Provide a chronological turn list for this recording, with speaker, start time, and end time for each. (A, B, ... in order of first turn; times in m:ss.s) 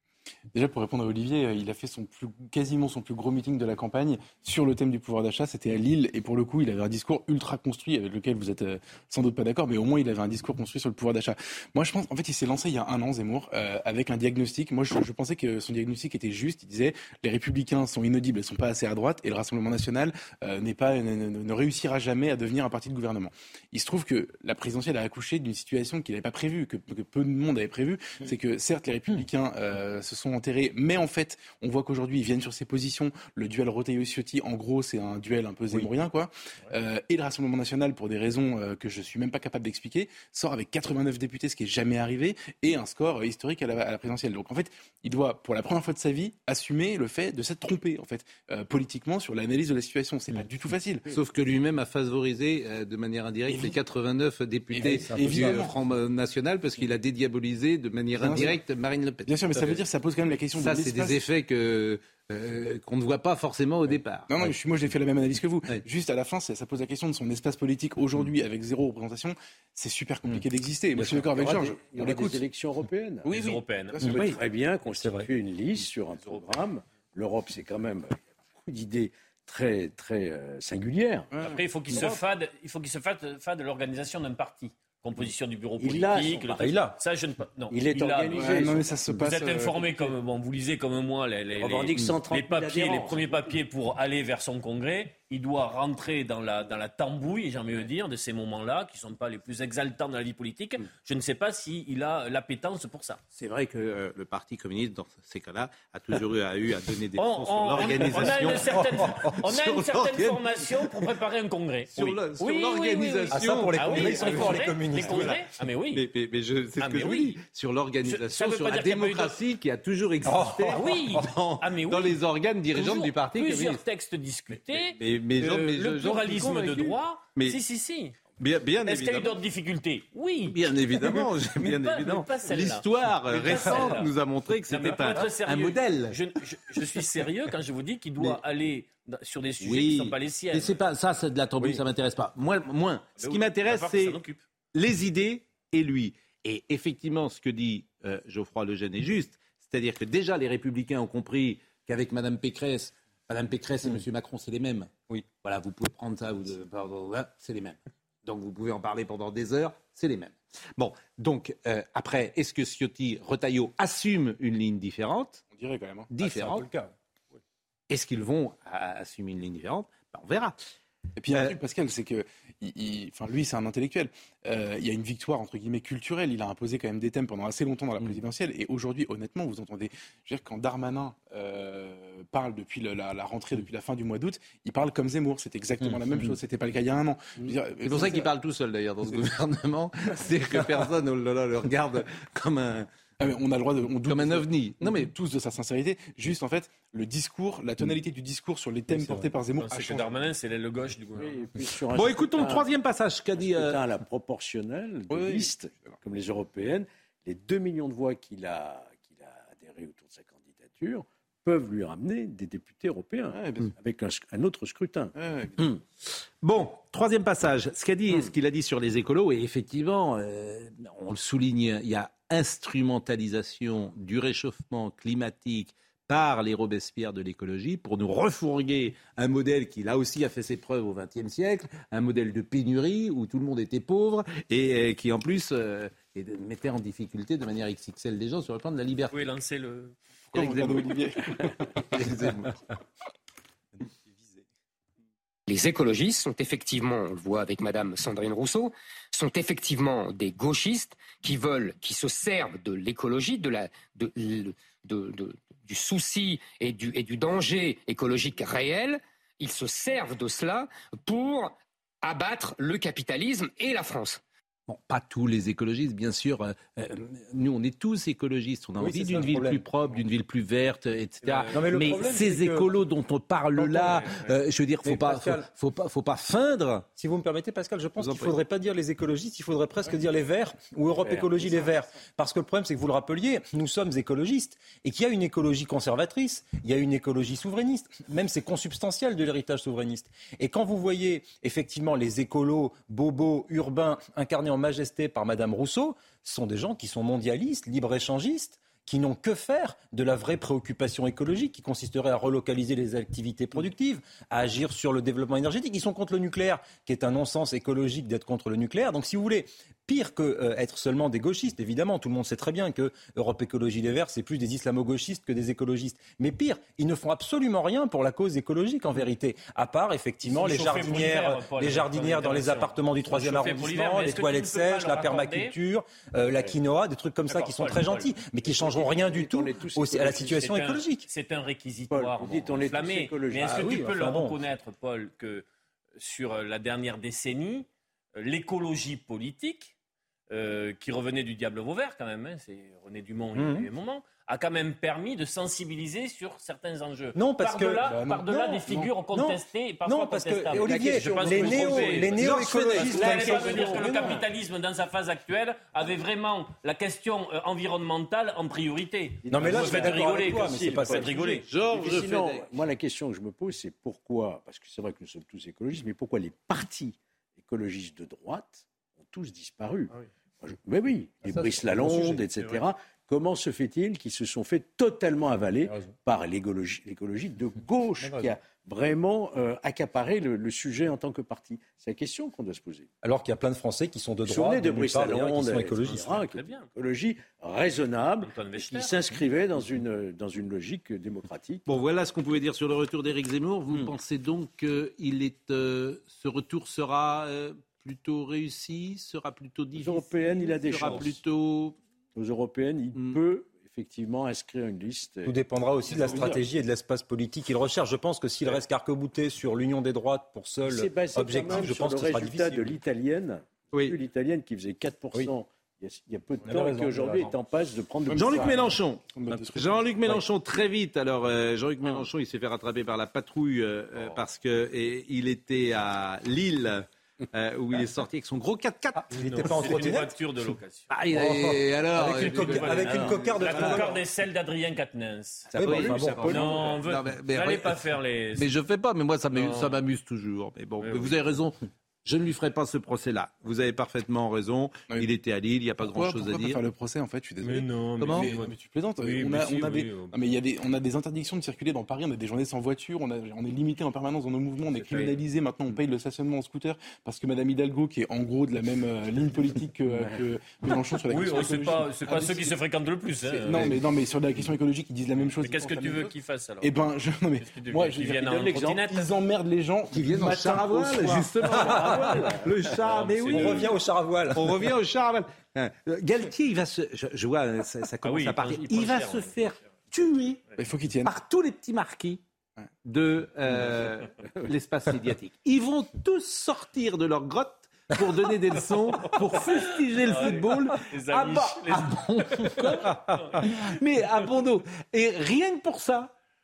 0:00.5-0:51.1 A
0:51.1-0:59.8 B
0:53.5-0:53.8 A
0:54.7-0:55.7 A
0:58.2-0:58.6 A
0:59.2-1:01.2 A
1:00.5-1:04.3 B
1:04.3-1:12.4 A
1:11.0-1:11.2 C
1:11.3-1:13.3 D
1:13.2-1:14.4 A
1:13.3-1:14.4 E
1:14.0-1:14.3 C
1:14.1-1:21.3 D
1:14.9-1:15.3 C
1:16.2-1:16.5 E
1:21.3-1:22.0 A
1:21.4-1:43.2 E
1:25.8-1:26.6 D
1:26.6-1:27.0 C
1:27.7-1:29.1 D
1:28.3-1:30.1 A
1:31.6-1:33.5 D
1:43.3-1:51.0 B
1:47.2-1:56.0 E
1:48.4-1:49.3 C
1:51.9-2:03.8 B
1:53.3-1:55.4 C
1:56.8-1:57.4 E
1:58.0-1:59.4 E
2:00.2-2:01.3 C
2:00.7-2:02.2 E
2:02.7-2:08.2 E
2:04.7-2:07.6 B
2:08.4-2:09.3 B
2:08.8-2:14.1 E
2:10.5-2:16.2 B
2:13.5-2:14.0 C
2:14.7-2:20.8 E
2:19.6-2:24.2 B
2:23.2-2:24.4 E
2:24.7-2:45.4 B
2:45.5-2:46.1 A
2:46.1-2:46.7 B
2:46.2-2:46.9 C
2:47.9-2:50.5 B
2:51.2-3:08.3 A
3:05.9-3:06.2 C
3:07.8-3:12.9 B
3:13.2-3:20.3 A
3:14.0-3:15.0 B
3:18.9-3:19.2 C
3:19.6-3:21.5 E
3:21.2-3:22.7 D
3:21.9-3:23.8 B
3:23.4-3:35.7 D
3:25.1-3:26.0 A
3:33.3-3:33.7 A
3:35.1-3:35.8 A
3:36.4-3:59.3 B
3:59.1-3:59.9 E
4:00.3-4:02.0 A
4:00.3-4:02.5 B
4:05.5-4:24.2 F
4:24.7-4:36.9 B
4:28.8-4:29.6 C
4:31.2-4:31.6 E
4:31.5-4:32.7 C
4:33.5-4:34.2 C
4:34.8-4:35.4 C
4:37.0-5:31.1 C
4:38.0-4:38.4 B
4:41.0-4:41.6 D
5:20.2-5:25.5 E
5:27.3-5:28.1 E
5:28.4-5:30.5 D
5:30.2-5:35.4 E
5:31.9-5:33.8 D
5:33.4-5:34.4 C
5:36.0-5:39.7 E
5:40.3-6:01.5 E
5:43.3-5:43.7 C
5:47.1-5:47.9 C
5:47.8-5:48.9 A
5:49.1-5:54.2 C
5:50.7-5:53.6 B
5:52.8-5:54.0 D
5:59.2-6:22.9 D
5:59.3-6:01.4 C
6:01.5-6:02.5 B
6:11.2-6:12.2 C
6:23.0-6:26.1 C
6:24.2-6:31.6 D
6:25.6-6:26.7 E
6:28.2-6:29.0 E
6:31.6-6:41.8 B
6:39.7-6:41.2 D
6:42.1-6:45.4 D
6:42.9-6:43.2 B
6:45.2-6:52.7 C
6:45.9-6:46.4 D
6:50.6-6:58.5 D
6:56.4-6:57.4 C
6:58.1-7:00.2 A
6:58.1-7:09.9 B
7:09.0-7:10.1 C
7:09.1-7:10.9 E
7:10.9-7:13.9 B
7:11.1-7:14.0 C
7:12.1-7:18.5 E
7:15.5-7:16.6 C
7:15.5-7:17.8 B
7:18.4-7:26.6 B
7:19.3-7:19.8 E
7:20.8-7:21.2 E
7:25.8-7:42.5 A
7:27.4-7:30.2 E
7:28.0-7:28.3 B
7:41.1-7:43.8 E
7:43.2-7:52.3 A
7:45.2-7:46.7 E
7:47.4-7:49.1 E
7:49.9-7:53.7 B
7:51.6-7:52.3 C
7:52.8-7:53.7 E
7:53.3-7:54.7 C
7:54.3-8:00.4 B
7:58.0-7:59.5 E
8:00.6-8:01.1 A
8:01.0-8:02.2 B
8:02.8-8:16.1 B
8:09.1-8:13.5 E